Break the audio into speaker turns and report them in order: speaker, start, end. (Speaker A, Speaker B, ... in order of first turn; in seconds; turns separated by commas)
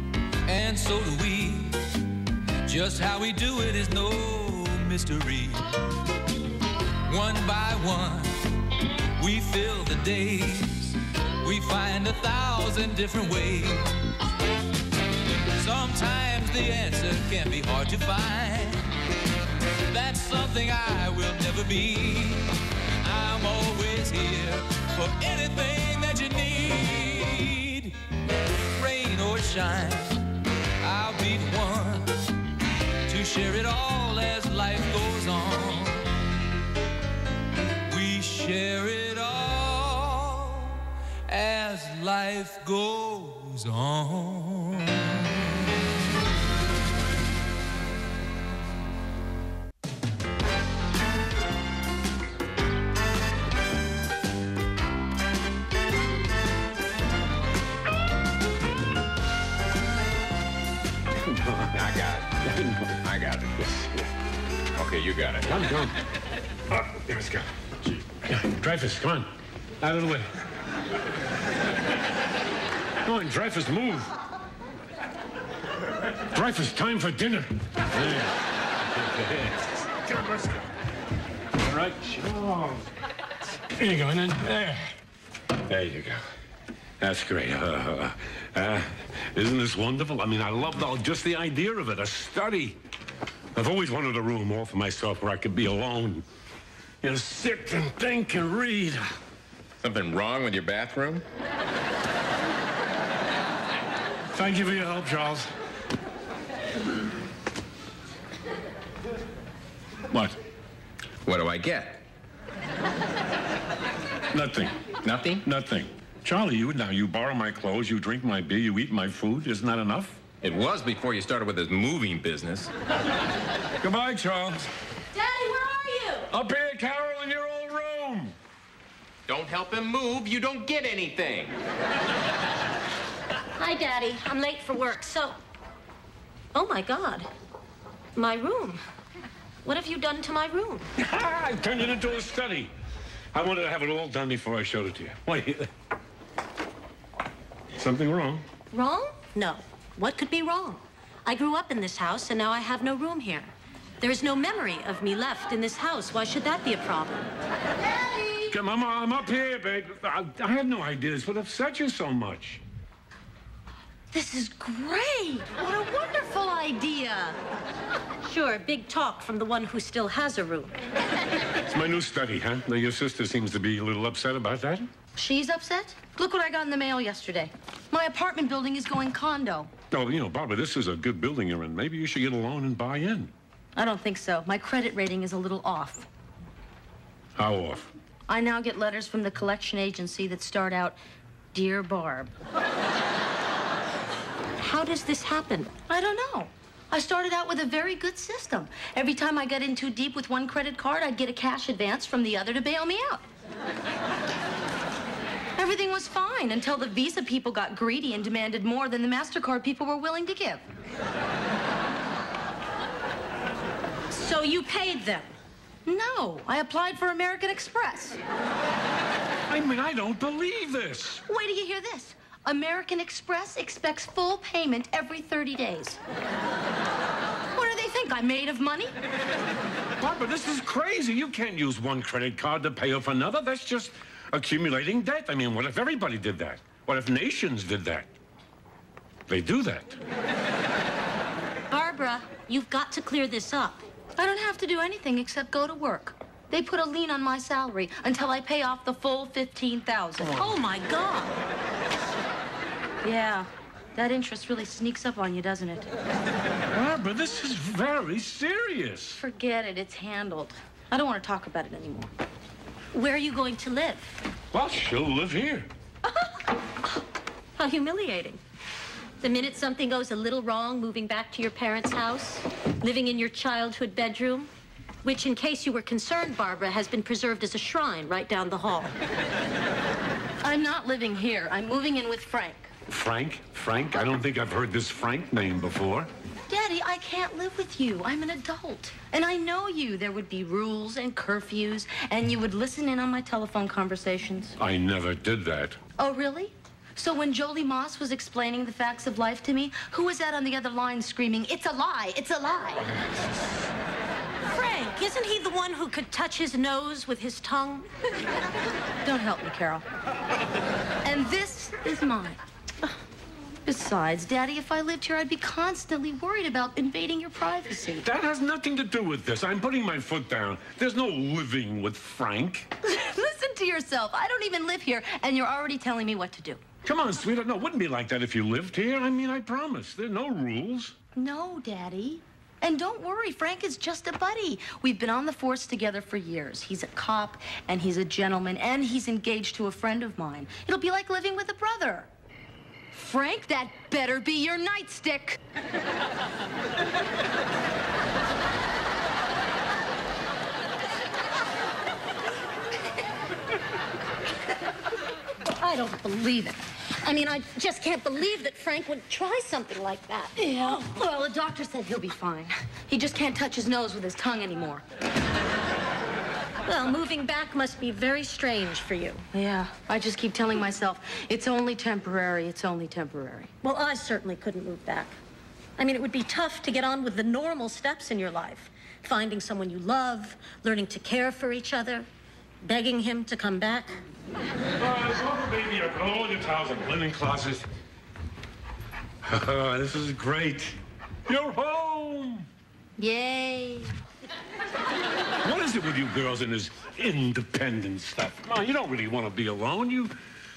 Speaker A: 0.4-1.8, Speaker A: 2.6-5.7, Speaker A: 7.1-8.5, Speaker A: 9.2-14.1, Speaker A: 15.5-18.9, Speaker A: 19.9-27.9, Speaker A: 28.7-30.2, Speaker A: 30.8-32.3, Speaker A: 33.0-36.1, Speaker A: 37.9-45.5, Speaker B: 61.1-61.9, Speaker C: 61.7-62.4, Speaker B: 62.4-63.0, Speaker C: 63.0-63.8, Speaker B: 63.6-64.1, Speaker C: 64.7-65.6, Speaker B: 65.5-66.0, Speaker B: 66.7-67.5, Speaker B: 68.1-70.3, Speaker B: 73.0-74.1, Speaker B: 76.3-80.5, Speaker B: 81.6-82.9, Speaker B: 83.7-84.9, Speaker B: 85.5-86.2, Speaker B: 87.0-92.8, Speaker B: 93.5-96.2, Speaker B: 97.0-99.0, Speaker C: 99.8-101.2, Speaker B: 104.3-105.5, Speaker B: 110.1-110.3, Speaker C: 111.2-112.0, Speaker B: 114.3-114.8, Speaker C: 115.0-115.4, Speaker B: 115.4-120.2, Speaker C: 120.4-122.7, Speaker B: 123.8-124.7, Speaker D: 125.1-126.3, Speaker B: 126.3-128.3, Speaker C: 129.3-131.5, Speaker D: 133.6-135.3, Speaker D: 136.5-137.3, Speaker D: 138.1-138.8, Speaker D: 139.6-140.9, Speaker B: 141.0-142.7, Speaker B: 143.3-145.7, Speaker B: 147.8-148.4, Speaker D: 148.7-157.3, Speaker B: 158.5-162.6, Speaker E: 164.1-167.4, Speaker D: 168.2-170.8, Speaker B: 171.6-174.9, Speaker E: 175.2-179.7, Speaker B: 179.9-183.3, Speaker E: 183.7-186.1, Speaker B: 187.3-187.9, Speaker E: 188.3-191.0, Speaker E: 191.5-192.3, Speaker D: 194.6-195.7, Speaker E: 195.9-203.2, Speaker E: 205.6-210.6, Speaker D: 214.1-215.3, Speaker E: 215.8-218.2, Speaker B: 219.5-221.2, Speaker E: 221.3-226.0, Speaker E: 227.5-228.9, Speaker B: 230.0-238.1, Speaker B: 239.3-240.0, Speaker D: 241.7-243.8, Speaker E: 244.2-250.5, Speaker D: 250.3-251.4, Speaker E: 253.0-255.9, Speaker B: 256.7-259.2, Speaker E: 259.2-262.1, Speaker D: 262.9-264.2, Speaker B: 264.5-265.7, Speaker D: 267.6-268.4, Speaker D: 269.2-274.5, Speaker D: 275.0-278.9, Speaker E: 280.4-282.7, Speaker B: 282.9-286.1, Speaker E: 286.5-294.5, Speaker B: 294.6-295.8, Speaker E: 296.0-302.9, Speaker D: 304.5-307.9, Speaker E: 309.0-309.8, Speaker E: 311.0-312.4, Speaker E: 313.6-318.1, Speaker B: 318.0-322.7, Speaker E: 322.8-326.6, Speaker B: 326.8-330.9, Speaker E: 331.1-342.1, Speaker E: 342.9-345.4, Speaker D: 355.5-360.3, Speaker E: 360.4-364.8, Speaker D: 366.6-369.2, Speaker E: 369.3-373.5, Speaker D: 373.6-375.2, Speaker D: 375.8-382.1, Speaker D: 382.6-384.0, Speaker B: 384.8-387.7, Speaker B: 389.2-392.4, Speaker E: 393.0-393.9, Speaker B: 395.4-400.1